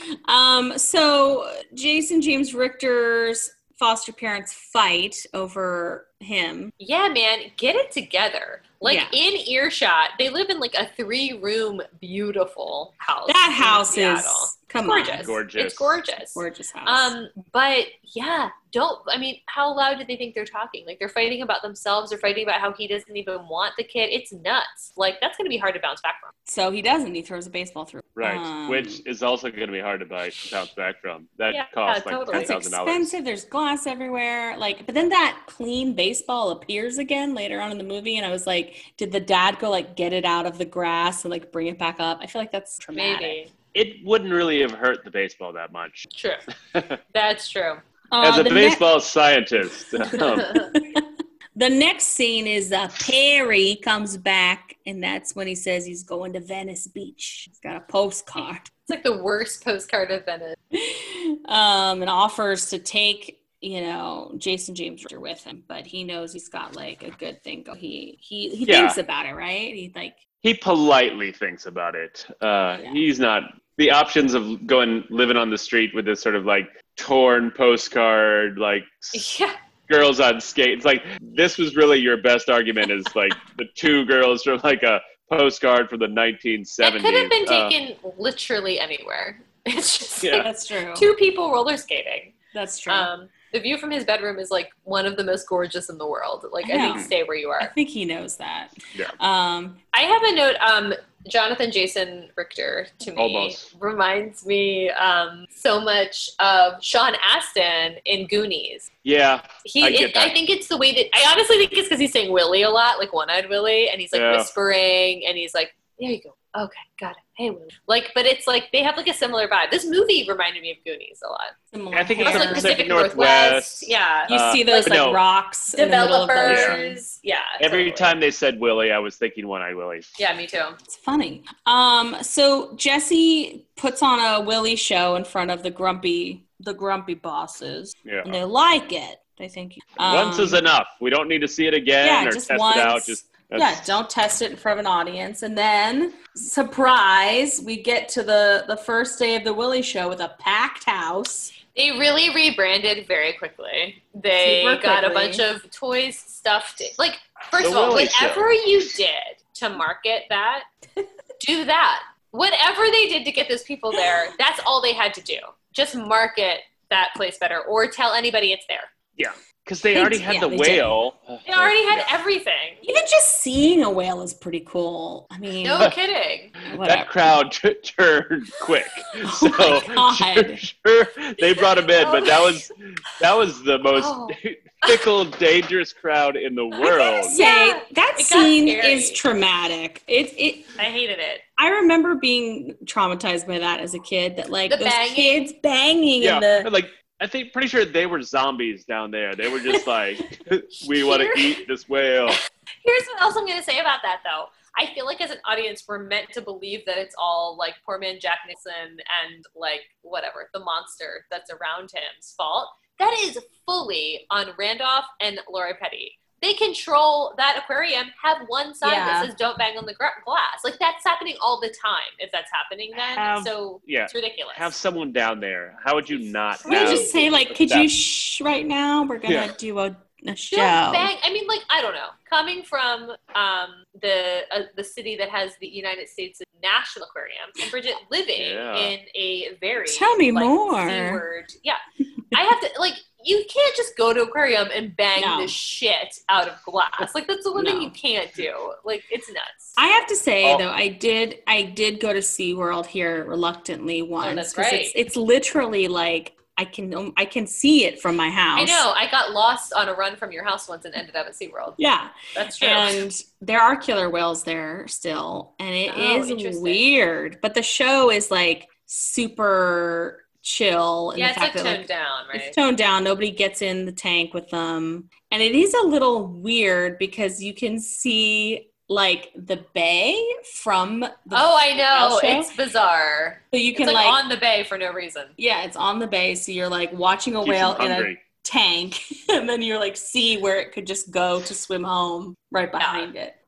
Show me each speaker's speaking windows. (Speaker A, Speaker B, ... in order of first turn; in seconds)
Speaker A: 0.3-6.7, 8.8-9.1, 13.3-15.3, 16.3-17.1, 26.4-29.0, 32.3-43.4, 48.1-48.8, 50.8-51.0, 51.5-58.7, 60.7-70.2, 72.8-73.0, 90.4-91.1, 92.5-93.1, 96.6-99.8, 121.7-122.8, 124.3-127.0, 130.9-140.6, 142.0-151.5, 154.4-155.4, 169.9-171.0, 172.8-175.9, 176.7-177.1, 179.2-180.6, 187.3-190.8, 191.6-196.7, 218.8-219.3, 223.2-223.5, 226.7-231.1, 239.9-241.2, 245.2-245.5, 247.6-247.9, 249.8-258.8, 261.8-282.5, 283.5-284.2, 285.4-293.4
Speaker B: 6.8-26.3, 31.5-32.5, 42.9-43.5, 46.1-46.4, 47.1-47.8, 58.4-60.5, 79.1-79.5, 86.8-92.3, 92.9-97.7, 99.9-108.9, 109.6-121.5, 122.2-125.0, 125.7-128.1, 130.2-130.8, 151.7-160.7, 161.4-168.9, 171.4-172.8, 175.6-176.5, 181.4-182.6, 183.9-185.1, 186.7-189.2, 190.8-191.4, 194.7-195.4, 200.8-201.6, 202.3-224.7, 226.6-227.2, 230.5-241.8, 242.3-249.8, 254.2-255.0, 258.6-261.8, 262.3-263.0, 265.9-266.8, 271.1-272.6, 281.3-285.3, 292.8-293.1
Speaker C: 15.2-16.0, 28.2-33.1, 43.7-46.1, 46.7-47.0, 48.2-50.7, 68.6-69.0, 70.4-79.2, 79.9-87.7, 90.2-90.5, 103.2-103.7, 109.0-110.3, 114.1-114.5, 121.9-125.2, 126.4-126.8, 127.6-130.1, 138.0-138.4, 140.0-143.9, 157.6-158.7, 169.2-172.0, 176.6-187.3, 196.2-202.4, 223.8-227.9, 229.3-229.5, 238.4-238.9, 287.4-288.2